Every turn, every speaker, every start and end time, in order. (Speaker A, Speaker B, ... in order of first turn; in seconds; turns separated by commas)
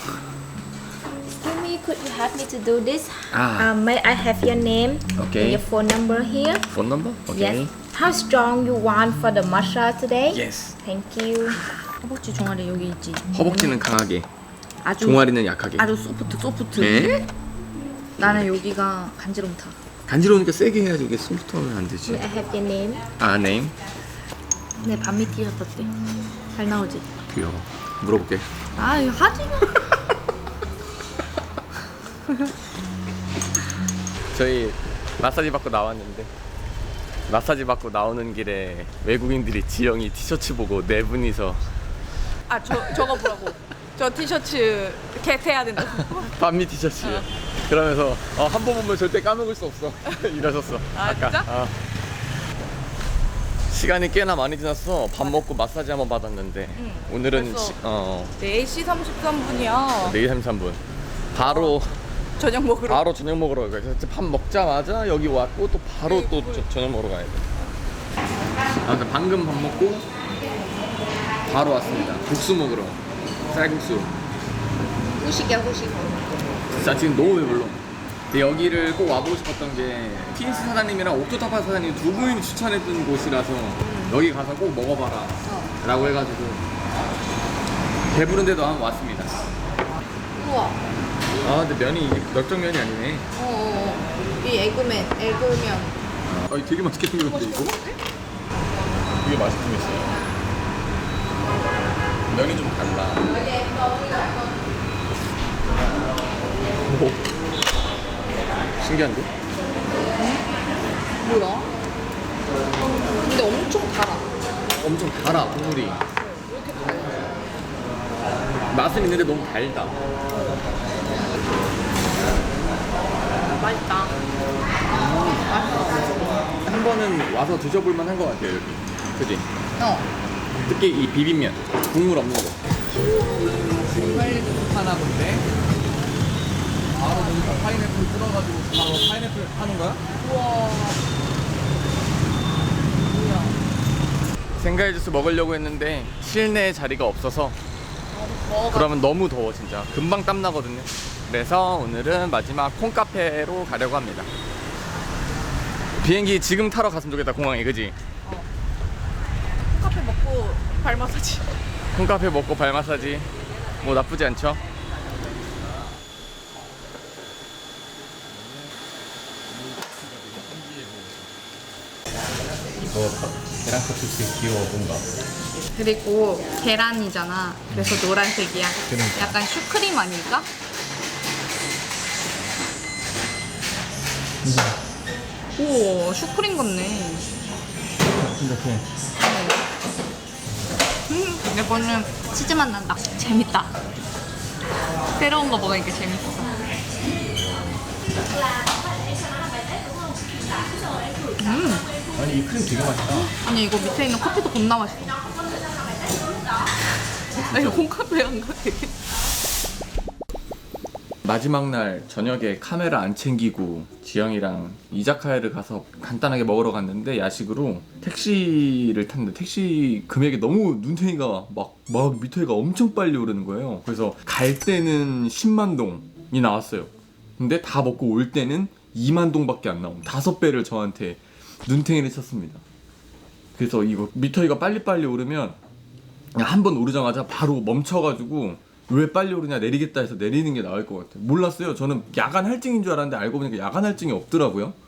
Speaker A: 1.4-6.7, Speaker B: 3.3-3.7, Speaker B: 5.2-5.6, Speaker B: 6.7-7.7, Speaker A: 7.3-11.6, Speaker B: 10.3-10.8, Speaker C: 12.0-13.8, Speaker B: 13.3-14.3, Speaker C: 14.8-15.2, Speaker B: 15.0-15.9, Speaker C: 15.8-17.2, Speaker B: 16.8-17.3, Speaker C: 18.2-19.8, Speaker B: 18.2-18.5, Speaker B: 20.1-22.2, Speaker A: 22.1-23.1, Speaker B: 23.2-23.8, Speaker A: 24.8-25.9, Speaker A: 26.5-27.1, Speaker B: 27.3-28.5, Speaker C: 28.8-29.9, Speaker B: 34.3-36.3, Speaker B: 37.3-41.6, Speaker C: 42.5-46.3, Speaker B: 42.7-43.2, Speaker B: 46.3-51.8, Speaker C: 51.0-51.5, Speaker B: 53.7-58.4, Speaker C: 56.8-57.8, Speaker C: 58.4-60.1, Speaker B: 60.0-60.8, Speaker B: 61.3-62.0, Speaker C: 61.5-61.8, Speaker C: 62.4-63.0, Speaker B: 62.9-67.5, Speaker C: 66.0-66.7, Speaker B: 68.8-70.1, Speaker B: 71.5-73.0, Speaker B: 73.5-74.1, Speaker C: 75.2-76.6, Speaker B: 76.8-77.8, Speaker B: 78.3-86.6, Speaker C: 83.8-84.2, Speaker C: 85.5-85.7, Speaker B: 88.1-89.4, Speaker C: 90.3-90.8, Speaker B: 91.4-93.3, Speaker C: 93.4-96.0, Speaker B: 96.3-97.8, Speaker C: 97.2-98.0, Speaker B: 99.1-100.2, Speaker B: 102.3-103.4, Speaker B: 106.8-107.2, Speaker B: 108.8-109.3, Speaker C: 110.2-110.5, Speaker C: 111.2-111.7, Speaker C: 113.2-114.3, Speaker B: 114.8-116.0, Speaker C: 116.2-117.4, Speaker B: 118.7-120.0, Speaker C: 120.3-120.6, Speaker C: 123.5-124.1, Speaker B: 124.9-125.5, Speaker C: 125.5-126.3, Speaker B: 126.7-129.5, Speaker C: 129.8-130.1, Speaker B: 130.6-132.6, Speaker C: 132.9-134.7, Speaker B: 133.9-135.5, Speaker C: 136.9-137.7, Speaker B: 136.9-140.0, Speaker C: 140.1-141.0, Speaker C: 142.9-143.6, Speaker B: 144.6-147.6, Speaker C: 148.1-148.9, Speaker B: 148.7-154.3, Speaker B: 156.0-157.9, Speaker C: 159.6-161.5, Speaker B: 161.9-163.3, Speaker B: 163.8-164.6, Speaker B: 168.3-168.8, Speaker B: 169.5-171.3, Speaker B: 172.8-175.1, Speaker C: 175.8-180.5, Speaker B: 177.7-178.0, Speaker B: 178.9-179.4, Speaker B: 184.4-184.8, Speaker C: 185.6-187.3, Speaker B: 188.1-188.9, Speaker C: 189.2-189.7, Speaker C: 191.1-193.7, Speaker C: 195.2-196.5, Speaker B: 197.3-197.9, Speaker C: 201.4-201.9, Speaker B: 202.1-203.3, Speaker C: 203.2-205.2, Speaker C: 207.4-209.0, Speaker B: 207.5-207.8, Speaker B: 211.2-232.6, Speaker B: 233.6-235.6, Speaker B: 236.3-244.8